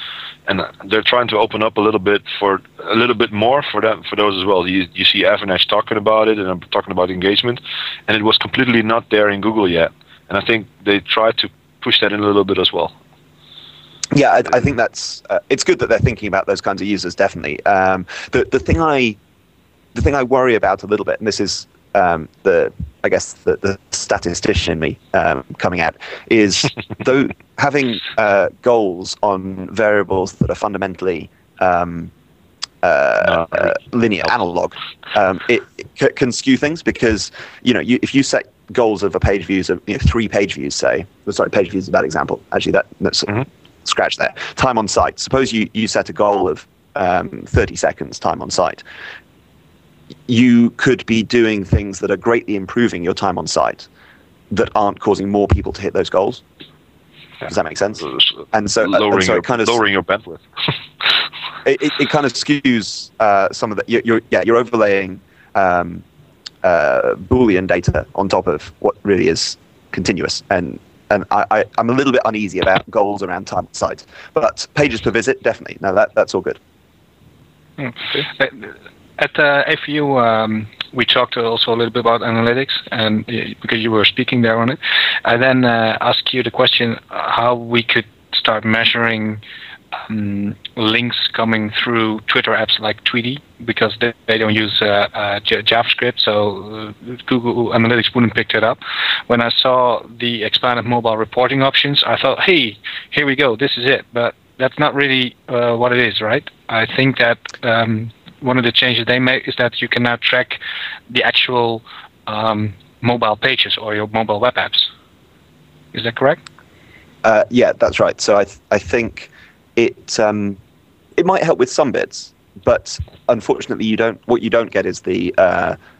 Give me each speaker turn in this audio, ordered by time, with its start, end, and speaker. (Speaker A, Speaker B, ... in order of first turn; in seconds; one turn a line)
Speaker A: 0.5-12.9
Speaker B: 14.1-19.2
Speaker B: 19.9-32.1
Speaker B: 32.8-48.8
Speaker A: 33.2-34.3
Speaker B: 50.3-53.9
Speaker B: 54.5-56.4
Speaker B: 57.5-59.8
Speaker A: 58.0-60.4
Speaker B: 61.6-66.0
Speaker B: 66.6-76.6
Speaker C: 77.8-89.4
Speaker C: 90.1-114.9
Speaker C: 115.9-116.4
Speaker B: 117.2-120.6
Speaker B: 121.2-125.8